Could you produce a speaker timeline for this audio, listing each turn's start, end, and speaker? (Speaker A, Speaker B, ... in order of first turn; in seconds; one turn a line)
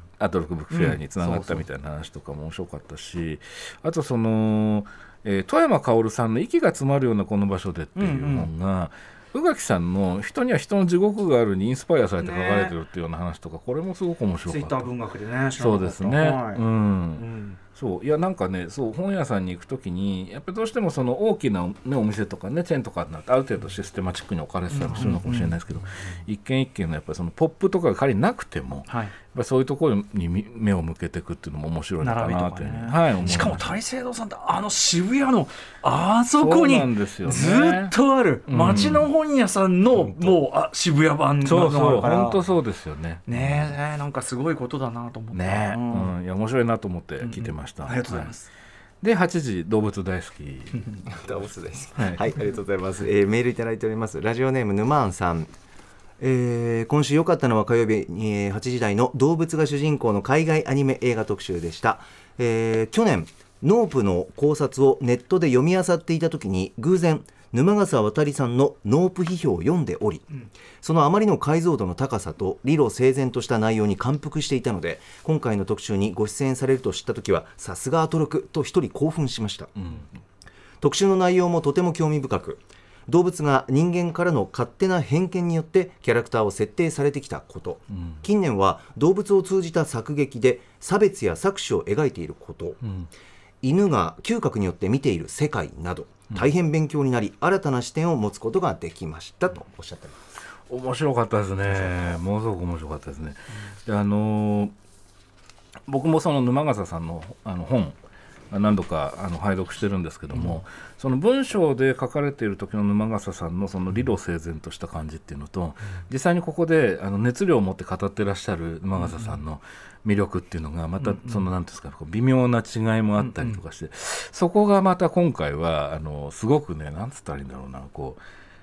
Speaker A: 0.2-14.9
Speaker B: 0.7-1.6
Speaker B: 8.0-8.5
Speaker B: 12.2-12.8
Speaker B: 14.5-16.6
Speaker A: 15.6-33.7
Speaker B: 17.2-17.6
Speaker B: 24.7-25.6
Speaker B: 28.9-29.1
Speaker B: 32.0-42.4
Speaker A: 36.4-38.0
Speaker A: 38.5-39.1
Speaker A: 40.0-40.3
Speaker A: 41.4-43.7
Speaker B: 43.3-46.1
Speaker A: 45.3-48.3
Speaker B: 47.2-48.5
Speaker A: 49.0-50.9
Speaker C: 51.1-55.5
Speaker C: 56.2-79.7
Speaker A: 79.8-80.1
Speaker C: 80.8-92.8
Speaker A: 87.9-88.2
Speaker A: 92.8-93.1
Speaker C: 93.6-100.2
Speaker A: 100.7-104.7
Speaker A: 105.9-108.0
Speaker A: 108.5-128.2
Speaker B: 110.3-110.6
Speaker B: 119.0-119.4
Speaker B: 121.0-121.5
Speaker B: 123.2-123.6